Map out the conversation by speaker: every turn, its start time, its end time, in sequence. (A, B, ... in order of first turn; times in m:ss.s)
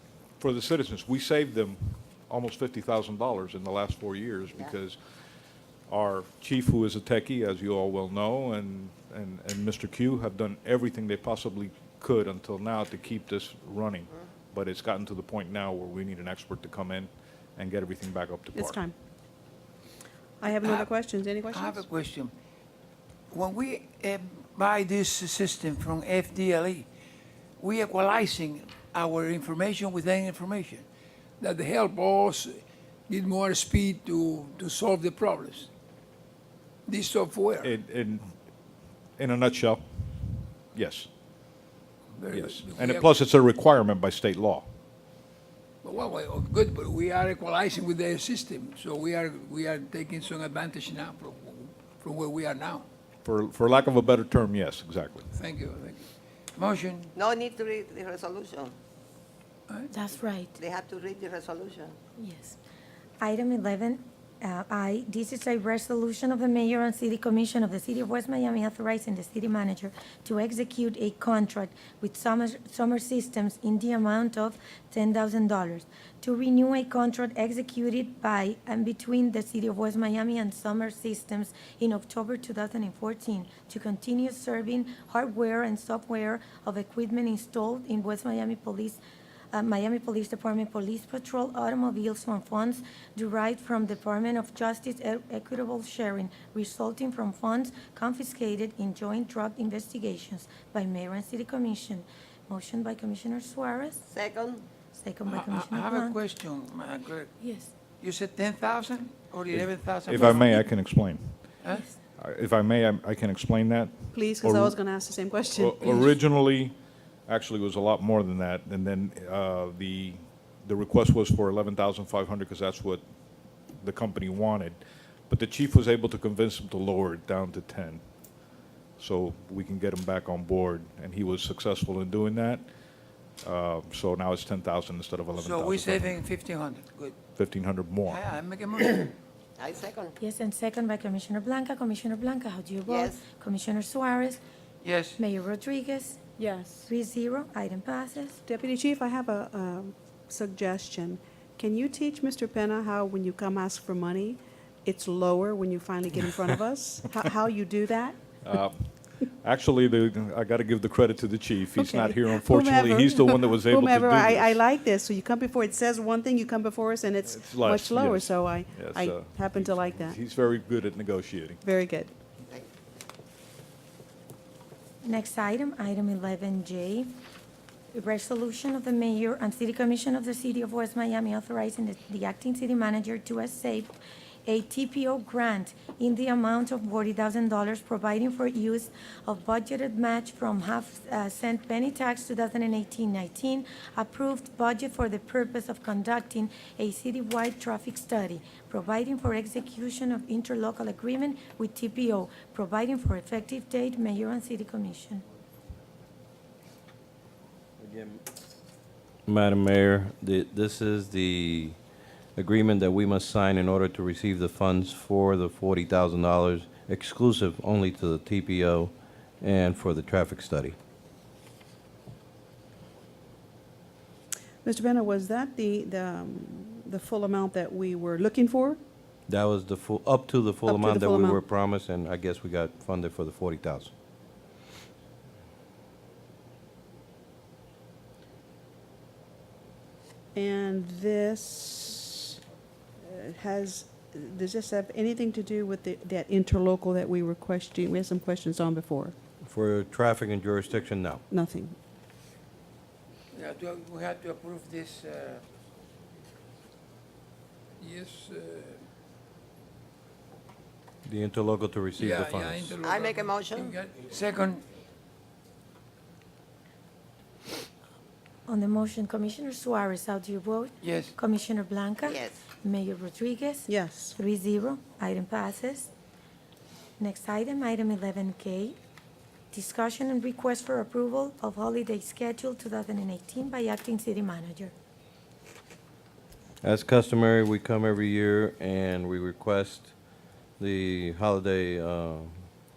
0:00.4-0:05.0 A
0:05.9-0:18.8 A
0:18.5-0:19.0 B
0:20.4-0:21.8 B
0:20.6-0:20.9 C
0:21.5-0:22.3 C
0:23.3-0:26.9 C
0:27.6-0:30.8 C
0:31.4-0:35.7 C
0:36.9-0:37.7 C
0:37.6-0:38.3 A
0:39.2-0:41.1 A
0:42.2-0:43.1 C
0:42.3-0:44.7 A
0:45.8-0:52.9 C
0:53.2-0:55.3 A
0:55.3-0:57.1 C
0:57.2-0:58.8 D
0:59.9-1:00.6 E
1:00.6-1:02.0 D
1:02.2-1:02.6 E
1:03.2-1:29.0 E
1:29.5-1:44.0 E
1:44.0-1:44.7 D
1:44.9-1:46.2 E
1:45.2-1:47.4 C
1:47.4-1:47.7 E
1:48.0-1:50.6 C
1:50.1-1:51.4 A
1:52.2-1:54.8 A
1:54.1-1:56.2 B
1:55.6-1:56.8 A
1:57.3-2:03.0 A
2:03.8-2:08.0 A
2:09.0-2:12.7 A
2:13.4-2:16.2 A
2:15.3-2:17.2 C
2:17.4-2:18.2 A
2:18.1-2:19.1 C
2:19.6-2:20.2 D
2:20.2-2:24.4 E
2:22.8-2:23.3 D
2:24.8-2:25.2 C
2:25.2-2:26.2 E
2:26.4-2:26.9 B
2:26.9-2:28.4 E
2:28.5-2:38.2 B
2:38.4-2:44.6 A
2:41.8-2:50.2 B
2:47.3-2:51.6 A
2:51.6-2:52.1 B
2:55.0-2:57.1 E
2:57.9-3:25.2 E
3:27.8-3:28.2 F
3:29.3-3:31.8 F
3:32.4-3:40.8 F
3:44.6-3:48.8 B
3:49.3-3:53.9 F
3:50.6-3:51.4 B
4:00.4-4:02.4 B
4:03.0-4:09.2 B
4:09.4-4:11.2 F
4:11.3-4:11.8 B
4:13.3-4:15.4 C
4:17.8-4:18.8 C
4:21.0-4:22.8 F
4:22.0-4:24.6 C
4:22.8-4:23.8 D
4:28.5-4:35.9 E
4:30.8-4:31.2 C
4:32.0-4:32.5 D
4:33.7-4:34.2 B
4:37.0-4:38.8 E
4:39.5-4:44.7 E
4:46.6-4:49.9 F
4:50.6-4:52.4 F